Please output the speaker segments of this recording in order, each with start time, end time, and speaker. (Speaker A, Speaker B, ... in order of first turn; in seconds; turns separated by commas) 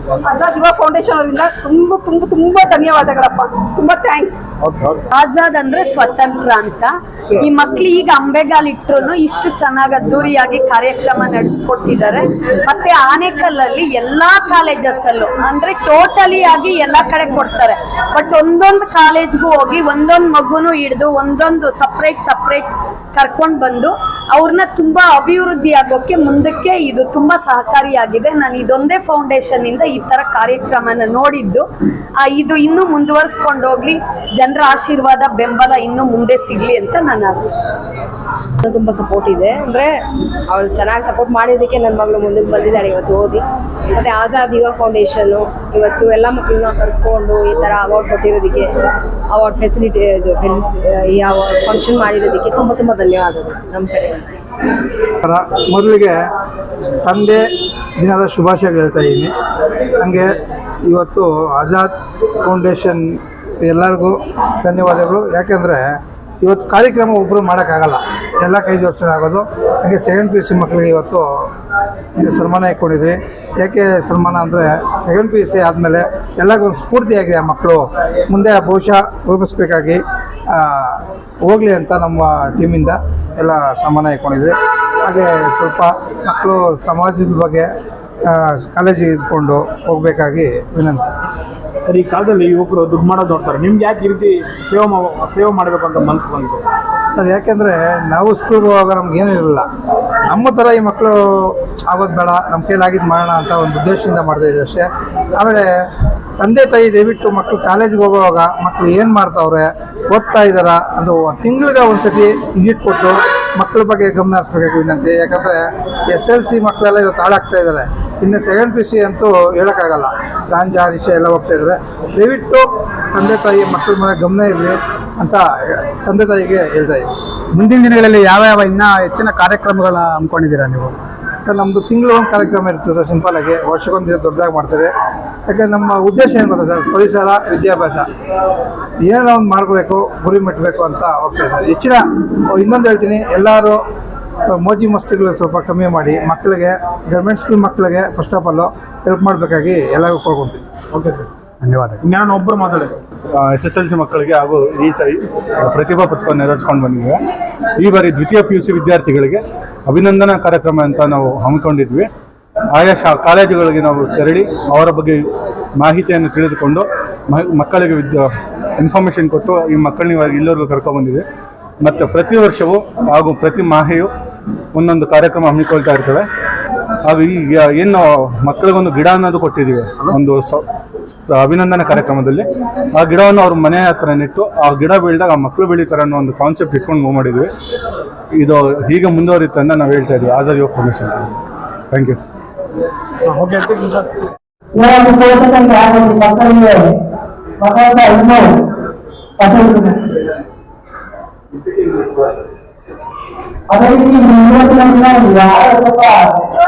Speaker A: 0.3-4.4, Speaker B: 4.6-5.0, Speaker C: 5.1-31.6, Speaker C: 32.2-37.6, Speaker D: 38.6-39.9, Speaker D: 40.5-54.2, Speaker E: 55.2-56.1, Speaker E: 57.0-57.4, Speaker E: 58.0-59.3, Speaker E: 60.0-60.4, Speaker E: 60.9-61.9, Speaker E: 62.4-65.8, Speaker E: 66.4-71.2, Speaker E: 72.2-80.0, Speaker E: 80.5-87.7, Speaker E: 88.3-91.1, Speaker B: 91.9-96.6, Speaker E: 97.1-99.7, Speaker E: 100.3-105.6, Speaker E: 106.4-115.6, Speaker E: 116.1-127.1, Speaker F: 127.5-131.0, Speaker E: 131.4-134.9, Speaker E: 135.5-138.0, Speaker E: 139.1-143.8, Speaker E: 144.6-150.6, Speaker B: 150.9-151.2, Speaker F: 151.6-152.0, Speaker B: 152.0-152.9, Speaker G: 153.3-157.2, Speaker G: 157.8-162.1, Speaker G: 162.7-165.2, Speaker G: 165.8-168.2, Speaker G: 168.8-171.2, Speaker G: 171.8-174.1, Speaker G: 174.7-176.2, Speaker G: 177.1-180.6, Speaker G: 181.3-187.5, Speaker G: 188.3-191.4, Speaker G: 191.9-192.2, Speaker B: 193.2-194.1, Speaker H: 194.8-196.8, Speaker H: 197.6-198.4, Speaker H: 199.4-199.9, Speaker H: 203.7-206.4